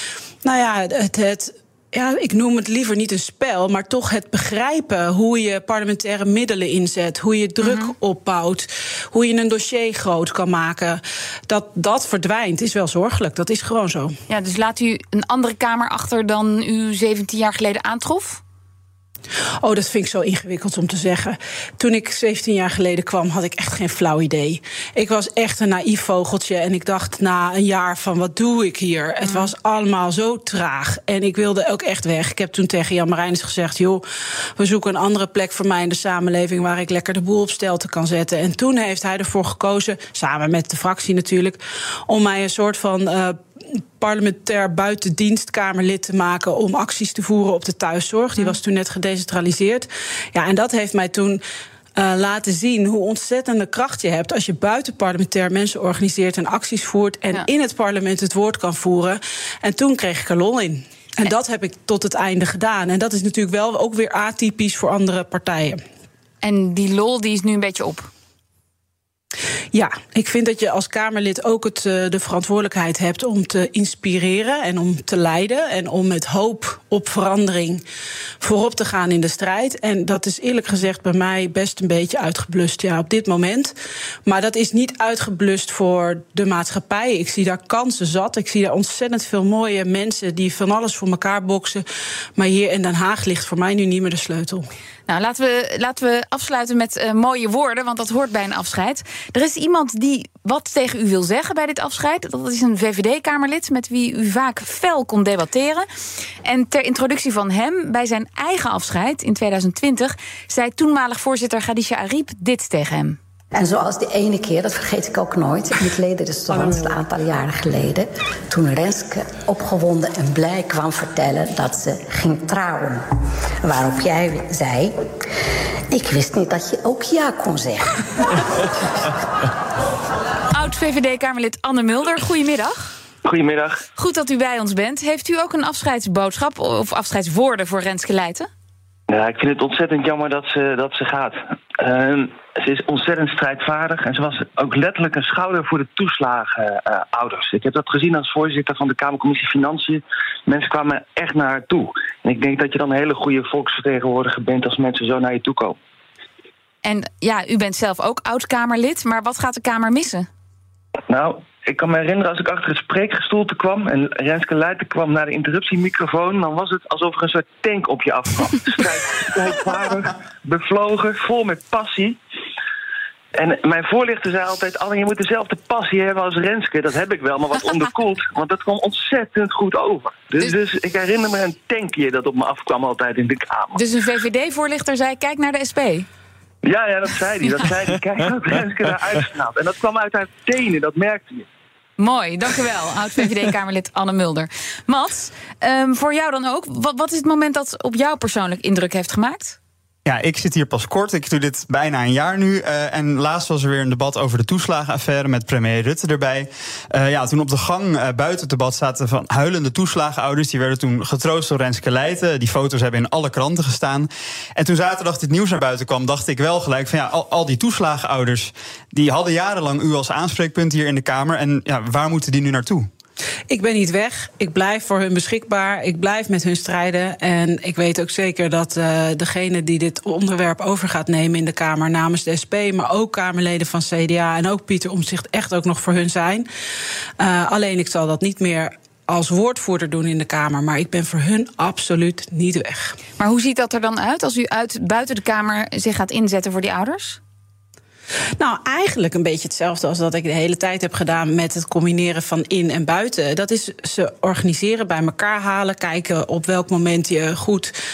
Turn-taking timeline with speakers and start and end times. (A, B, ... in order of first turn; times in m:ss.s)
0:00.4-0:14.2 A
0:07.6-0:07.9 B
0:14.3-0:18.4 B
0:19.6-0:34.0 A
0:34.6-0:43.4 A
0:44.0-0:51.4 A
0:52.0-1:05.8 A
1:06.4-1:08.1 B
1:09.7-1:17.8 A
1:18.4-1:23.7 A
1:24.3-1:31.8 A
1:32.4-1:34.7 A
1:35.1-1:45.8 B
1:46.4-1:53.2 B
1:53.5-2:03.0 C
2:03.6-2:04.9 C
2:05.9-2:08.0 C
2:10.5-2:12.9 B
2:13.2-2:13.8 D
2:14.0-2:18.5 B
2:19.1-2:35.8 D
2:36.8-2:40.3 B
2:41.1-2:52.2 D
2:53.4-3:03.8 D
3:03.8-3:06.1 B
3:06.6-3:11.5 D
3:12.0-3:19.6 B
3:20.0-3:42.9 E
3:43.5-3:56.5 A
3:57.2-4:03.0 A
4:03.2-4:07.2 B
4:08.4-4:17.7 A